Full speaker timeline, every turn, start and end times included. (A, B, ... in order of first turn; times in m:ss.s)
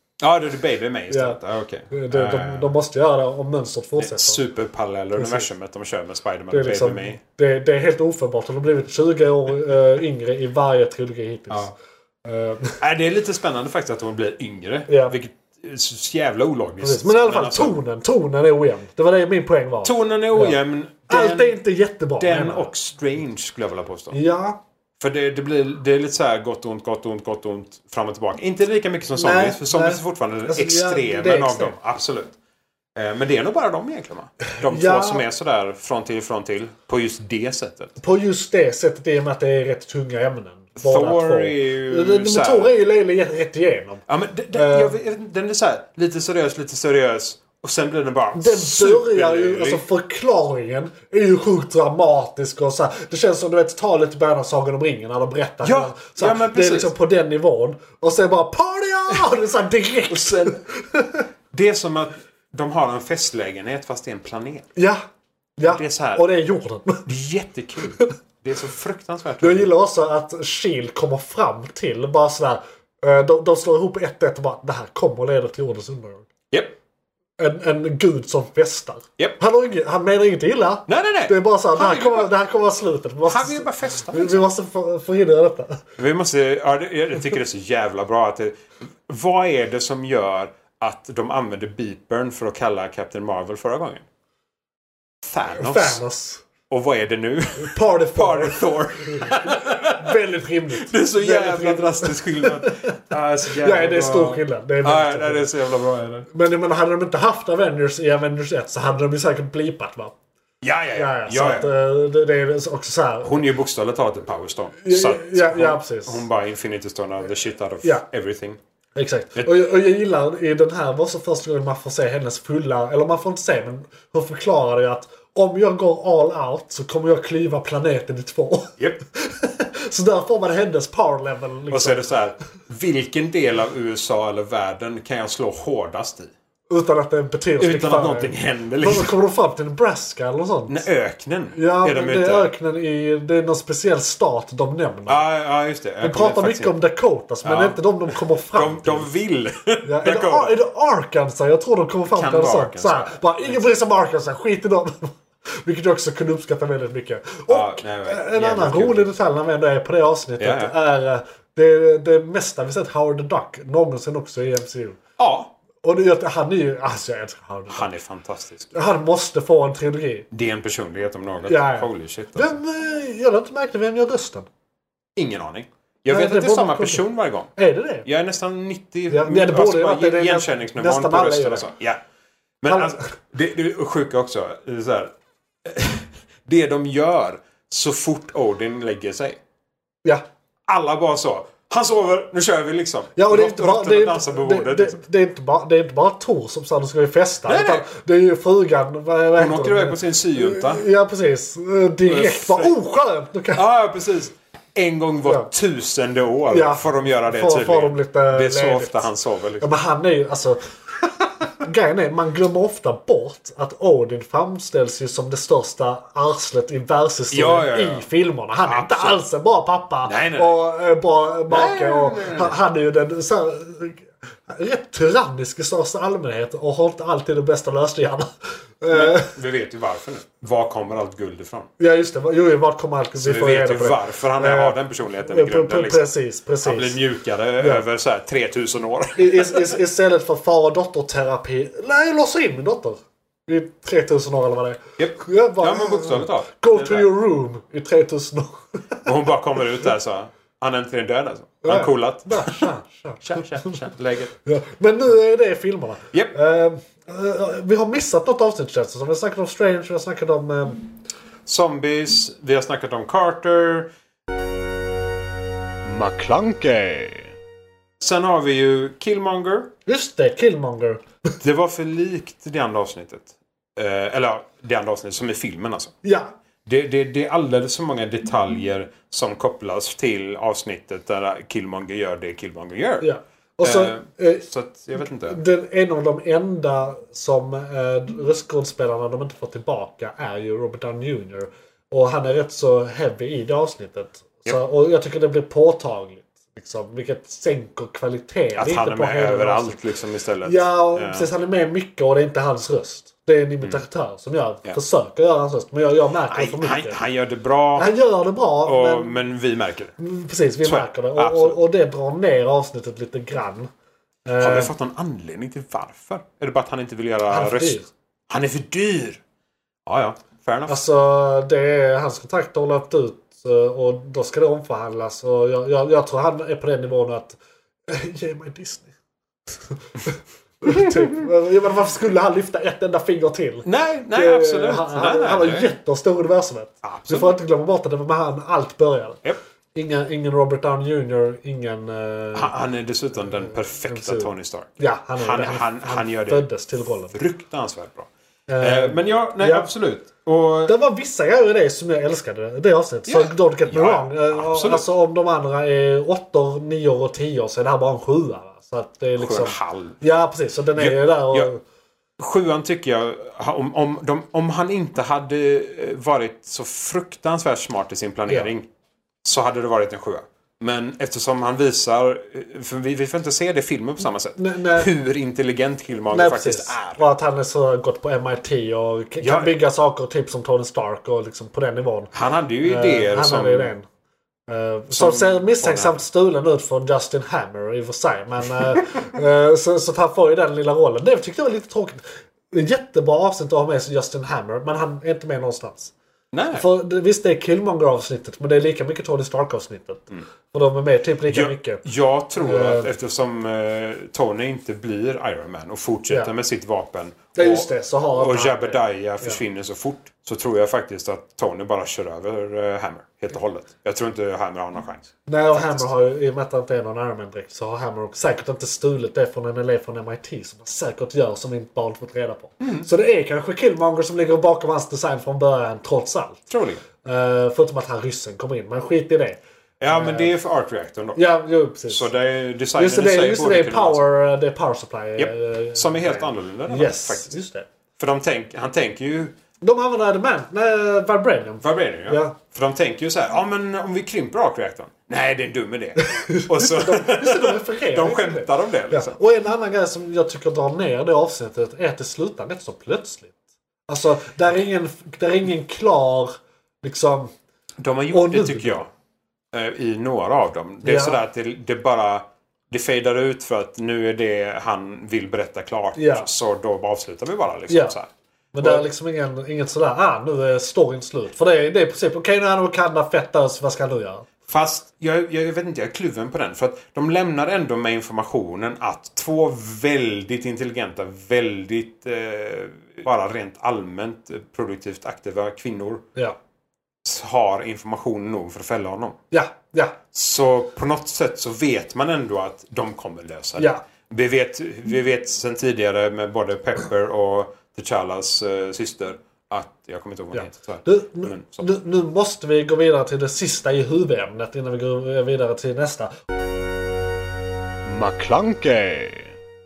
0:00.2-0:02.8 A
0:01.1-0:01.4 B
0:01.9-0:04.4 B
0:04.0-0:07.2 A
0:05.2-0:05.5 B
0:06.5-0:11.7 B
0:12.2-0:12.8 B
0:12.8-0:17.8 A
0:14.9-0:15.2 B
0:16.8-0:20.6 B
0:19.8-0:21.6 A
0:21.1-0:22.7 B
0:22.2-0:24.2 A
0:24.1-0:24.6 B
0:25.0-0:32.4 A
0:29.2-0:31.8 B
0:33.0-0:38.0 A
0:34.5-0:35.2 B
0:38.0-0:45.0 B
0:40.8-0:42.7 A
0:44.1-0:49.8 A
0:48.4-1:01.2 B
0:55.6-0:56.9 A
1:00.1-1:00.6 A
1:01.5-1:04.7 A
1:04.8-1:05.0 B
1:05.6-1:07.0 B
1:05.6-1:06.2 A
1:07.1-1:09.7 A
1:09.4-1:16.3 B
1:16.5-1:16.8 A
1:17.4-1:25.8 B
1:20.9-1:22.3 A
1:23.3-1:24.4 A
1:26.0-1:34.0 A
1:35.2-1:36.0 A
1:35.5-1:36.4 B
1:36.7-1:40.2 A
1:37.6-1:42.9 B
1:40.9-1:46.3 A
1:43.6-1:45.5 B
1:46.3-1:50.1 B
1:50.6-1:51.7 A
1:51.0-1:53.4 B
1:53.2-1:58.6 A
1:54.8-1:56.2 B
1:59.0-2:12.1 B
2:08.8-2:09.0 A
2:11.7-2:16.3 A
2:16.7-2:20.8 B
2:17.6-2:19.1 A
2:20.7-2:22.5 A
2:21.5-2:25.2 B
2:25.1-2:26.8 A
2:26.0-2:29.1 B
2:27.4-2:30.6 A
2:29.8-2:45.0 B
2:32.1-2:33.7 A
2:37.5-2:39.1 A
2:40.4-2:40.8 A
2:45.2-2:45.5 A
2:45.8-2:47.9 B
2:47.7-2:48.7 A
2:48.7-2:50.3 B
2:50.3-2:52.6 A
2:51.5-2:54.5 B
2:55.2-2:57.5 A
2:56.1-2:57.0 B
2:57.6-2:58.1 B
2:58.0-3:02.0 A
2:59.1-3:01.7 B
3:02.6-3:05.1 A
3:05.6-3:09.4 A
3:10.7-3:15.0 A
3:13.2-3:23.6 B
3:17.5-3:17.9 A
3:19.4-3:20.8 A
3:22.0-3:22.8 A
3:23.6-3:29.7 A
3:26.5-3:29.1 B
3:29.6-3:30.8 B
3:31.5-3:48.3 B
3:37.3-3:38.1 A
3:38.7-3:39.2 A
3:40.0-3:40.6 A
3:41.5-3:42.6 A
3:48.8-3:49.3 B
3:48.9-3:51.7 A
3:51.8-3:57.0 B
3:53.2-3:56.0 A
3:56.6-3:59.7 A
3:59.2-4:09.0 B
4:05.0-4:07.1 A
4:09.0-4:12.7 A
4:11.6-4:13.8 B
4:13.2-4:14.3 A
4:14.4-4:20.9 B
4:21.5-4:23.9 A
4:25.8-4:27.4 C
4:28.0-4:29.7 A
4:29.9-4:31.0 B
4:31.4-4:35.9 A
4:36.0-4:36.3 B
4:36.7-4:43.1 A
4:43.0-4:44.4 B
4:43.6-4:45.4 A
4:45.0-4:59.8 B
4:58.6-5:01.3 A
5:00.4-5:07.0 B
5:06.3-5:07.9 A
5:07.8-5:09.2 B
5:08.6-5:10.0 A
5:10.0-5:13.7 B
5:10.6-5:11.6 A
5:14.3-5:14.7 B
5:14.4-5:19.2 A
5:17.3-5:17.9 B
5:19.9-5:20.8 A
5:20.7-5:28.9 B
5:29.7-5:39.2 B
5:30.7-5:31.1 A
5:33.6-5:35.7 A
5:36.8-5:37.4 A
5:39.8-5:42.5 B
5:42.4-5:48.1 A
5:43.4-5:47.2 B
5:48.5-5:49.7 B
5:48.6-5:50.8 A
5:50.7-6:01.6 B
5:53.1-5:54.9 A
5:59.2-6:00.0 A
6:00.8-6:01.5 A
6:02.2-6:08.6 A
6:09.2-6:17.0 A
6:14.4-6:14.9 B
6:16.1-6:22.1 B
6:19.2-6:19.5 A
6:22.1-6:23.7 A
6:22.6-6:23.9 B
6:24.5-6:35.9 B
6:24.9-6:26.0 A
6:36.3-6:36.7 A
6:36.6-6:41.8 B
6:41.3-6:55.9 A
6:42.4-6:42.9 B
6:47.4-6:49.4 B
6:55.3-7:06.5 B
7:02.6-7:02.9 A
7:06.5-7:06.8 A
7:07.0-7:10.3 B
7:09.8-7:11.2 A
7:11.2-7:12.1 B
7:11.9-7:14.0 A
7:12.8-7:17.7 B
7:15.2-7:17.4 A
7:18.0-7:19.4 A
7:19.6-7:22.4 B
7:21.6-7:29.2 A
7:26.0-7:33.4 B
7:33.9-7:37.3 B
7:37.8-7:38.9 A
7:38.1-7:38.8 B
7:39.5-7:48.8 A
7:40.8-7:41.2 B
7:46.0-7:46.3 B
7:47.7-7:47.9 B
7:48.6-7:54.3 B
7:54.5-8:06.1 A
8:07.0-8:09.2 A
8:09.3-8:10.0 B
8:10.1-8:21.7 A
8:20.3-8:26.1 B
8:27.9-8:29.3 C